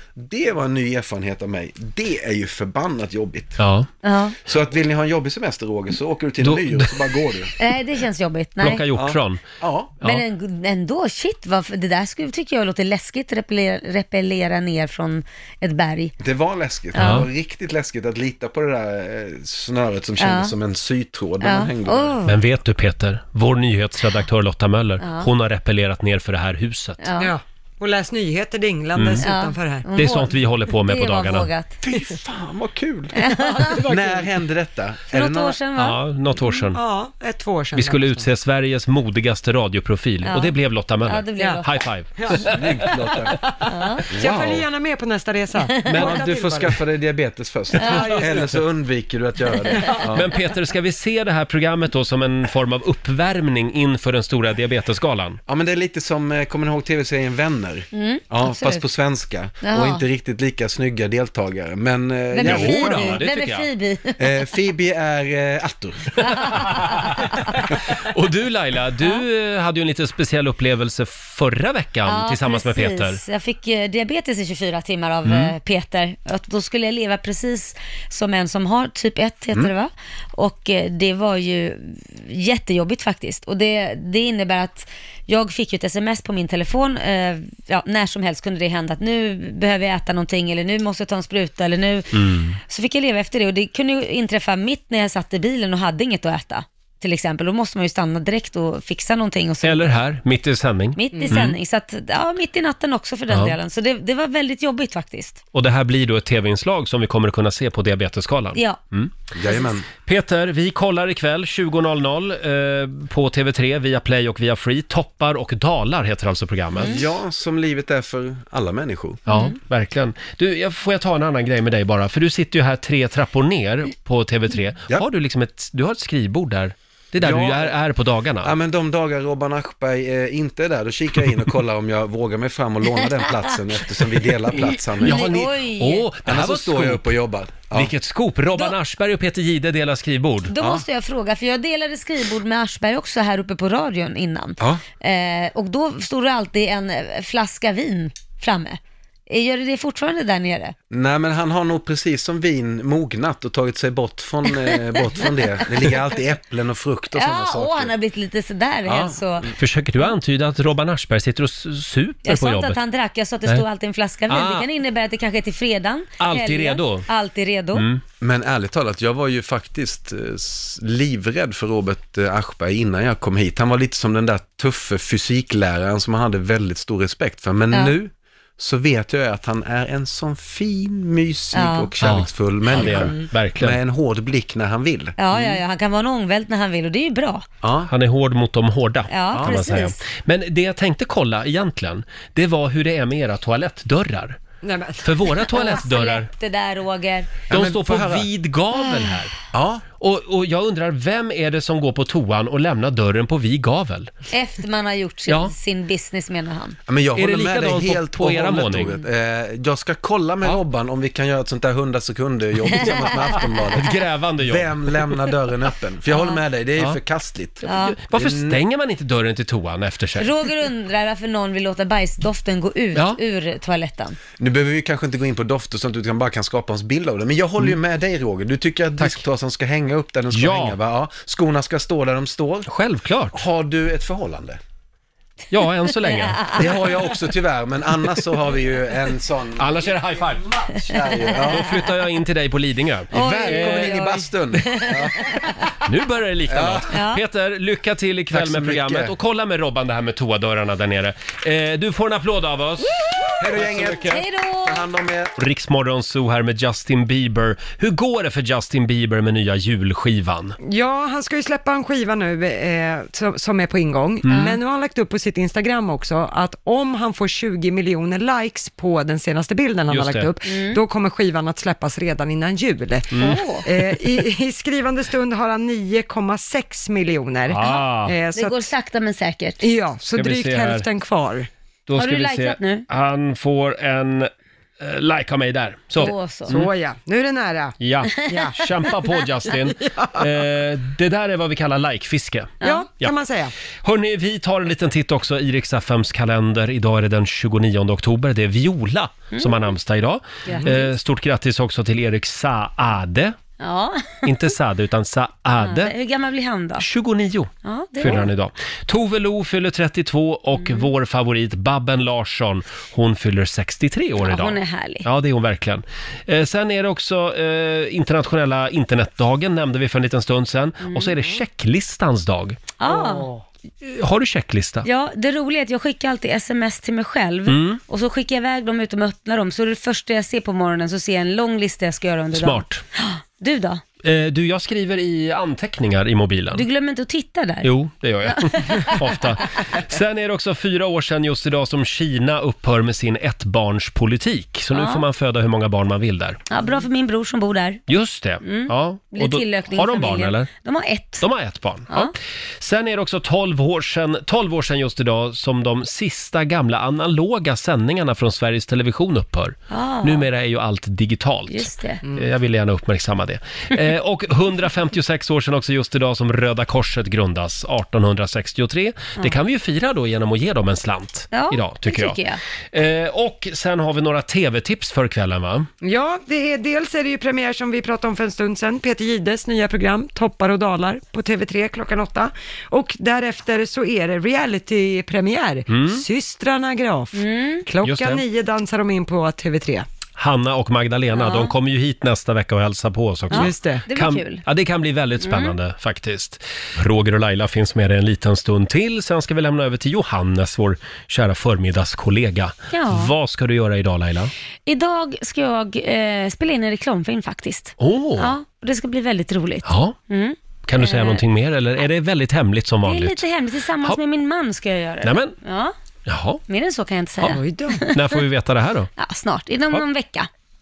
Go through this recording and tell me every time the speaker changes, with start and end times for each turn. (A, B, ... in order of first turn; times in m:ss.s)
0:00.2-0:03.6 A
0:03.6-0:03.9 B
0:04.0-0:04.4 C
0:04.5-0:07.5 A
0:06.4-0:07.0 B
0:07.6-0:08.8 C
0:08.6-0:09.5 B
0:08.9-0:10.0 A
0:10.0-0:16.1 C
0:16.2-0:22.2 A
0:16.9-0:17.3 C
0:17.0-0:17.3 B
0:20.2-0:20.6 C
0:21.4-0:22.4 C
0:22.3-0:27.0 B
0:25.0-0:25.3 C
0:27.0-0:27.3 C
0:27.2-0:29.9 D
0:29.0-0:29.2 B
0:29.2-0:31.8 C
0:30.0-0:31.5 B
0:31.8-0:33.3 A
0:33.1-0:33.8 C
0:33.3-0:34.3 D
0:33.8-0:35.6 A
0:35.1-0:36.6 C
0:35.8-0:36.8 B
0:36.8-0:38.3 D
0:37.8-0:43.2 B
0:40.2-0:40.5 C
0:41.0-0:41.7 C
0:41.4-0:41.6 D
0:42.2-0:42.5 D
0:42.4-0:43.4 A
0:43.4-0:46.8 D
0:43.7-0:44.1 C
0:44.1-0:44.7 A
0:45.8-0:46.3 B
0:45.9-0:50.3 A
0:47.7-0:48.2 B
0:47.8-0:48.5 D
0:47.8-0:48.1 C
0:49.7-0:50.1 D
0:50.1-0:55.4 B
0:55.5-1:03.3 A
0:57.9-0:58.8 C
0:59.6-1:00.0 C
1:02.3-1:04.5 C
1:02.4-1:03.7 B
1:04.2-1:06.6 A
1:06.2-1:07.3 C
1:06.2-1:13.2 B
1:12.1-1:39.8 C
1:15.2-1:15.5 B
1:32.1-1:32.6 B
1:39.6-1:41.6 B
1:41.0-1:45.4 C
1:41.1-1:41.4 D
1:43.3-1:43.6 B
1:45.5-1:49.1 B
1:49.3-1:49.9 A
1:50.0-1:57.1 B
1:56.8-1:57.0 C
1:56.8-1:59.2 A
1:59.3-2:08.5 B
1:59.3-1:59.6 C
2:07.2-2:07.8 A
2:08.4-2:15.3 A
2:15.0-2:16.1 C
2:15.0-2:17.1 B
2:16.2-2:17.9 A
2:17.7-2:20.5 B
2:20.5-2:30.8 C
2:20.6-2:20.8 A
2:30.9-2:37.9 A
2:34.5-2:36.0 C
2:37.1-2:40.1 C
2:38.8-2:39.5 A
2:39.6-2:42.8 B
2:42.2-2:47.9 C
2:44.3-2:44.7 B
2:46.2-2:47.1 B
2:47.7-2:48.0 B
2:48.2-3:05.6 A
3:01.5-3:01.9 C
3:02.0-3:03.8 B
3:05.2-3:07.4 C
3:07.6-3:07.9 A
3:07.9-3:14.4 B
3:09.1-3:10.0 C
3:09.3-3:09.8 A
3:14.6-3:15.3 D
3:15.0-3:16.3 B
3:15.5-3:17.4 C
3:17.5-3:18.3 A
3:17.5-3:19.4 B
3:18.8-3:19.1 C
3:19.5-3:19.8 A
3:20.0-3:24.1 B
3:24.3-3:26.8 C
3:25.3-3:25.5 B
3:26.9-3:38.6 A
3:27.2-3:29.0 B
3:32.7-3:33.4 C
3:33.8-3:35.2 B
3:36.1-3:36.4 C
3:37.6-3:38.0 C
3:37.6-3:40.3 B
3:40.2-3:44.2 C
3:44.4-3:52.7 A
3:49.0-3:49.2 B
3:50.3-3:50.8 B
3:52.7-3:53.4 B
3:53.3-3:54.6 A
3:55.5-3:56.7 B
3:56.2-3:56.5 C
3:56.5-4:01.7 A
3:59.6-4:04.8 B
4:03.1-4:05.6 A
4:03.1-4:05.6 C
4:05.8-4:14.2 B
4:06.5-4:06.9 A
4:06.9-4:07.2 C
4:08.3-4:09.2 A
4:13.4-4:15.4 A
4:14.0-4:14.9 C
4:15.4-4:20.6 B
4:20.6-4:33.1 D
4:24.2-4:24.5 B
4:29.9-4:30.3 B
4:30.5-4:30.8 C
4:33.1-4:33.4 B
4:33.2-4:33.7 C
4:33.6-4:38.7 D
4:37.5-4:38.1 B
4:38.4-4:39.6 C
4:39.6-4:41.5 D
4:40.1-4:40.9 B
4:41.9-4:46.7 B
4:42.0-4:42.9 C
4:46.0-4:46.5 C
4:46.0-4:50.2 D
4:47.8-4:53.1 B
4:52.6-4:53.5 D
4:53.8-5:03.4 B
4:59.3-4:59.6 C
5:00.5-5:00.9 C
5:03.6-5:04.3 C
5:04.2-5:05.9 B
5:05.6-5:06.9 C
5:06.8-5:22.6 B
5:07.6-5:08.3 C
5:10.6-5:10.9 C
5:14.2-5:15.1 C
5:20.8-5:21.2 C
5:22.8-5:23.3 C
5:22.8-5:23.4 D
5:23.8-5:24.9 B
5:24.8-5:33.8 C
5:27.5-5:27.8 B
5:32.3-5:32.8 B
5:34.0-5:36.6 B
5:36.5-5:37.7 C
5:37.6-5:46.4 B
5:38.3-5:39.2 C
5:44.7-5:45.0 C
5:46.5-5:47.8 C
5:47.9-5:50.5 B
5:48.4-5:51.2 C
5:51.2-6:12.2 B
5:59.7-6:00.3 C
6:01.5-6:02.0 C
6:02.0-6:02.3 D
6:11.3-6:12.4 C
6:12.7-6:15.7 B
6:15.8-6:29.9 D
6:25.7-6:26.0 B
6:27.1-6:27.6 C
6:27.8-6:28.2 B
6:30.2-6:44.3 B
6:31.2-6:31.5 C
6:33.3-6:34.4 C
6:33.3-6:33.8 D
6:35.2-6:35.6 C
6:42.7-6:43.1 C
6:44.7-6:51.2 C
6:47.8-6:48.3 B
6:49.6-6:50.0 B
6:50.7-6:53.2 B
6:52.8-6:55.7 C
6:55.0-6:55.4 B
6:56.1-6:56.4 B
6:56.5-6:58.2 C
6:57.2-6:58.9 B
6:57.3-6:57.8 D
6:59.0-7:00.3 C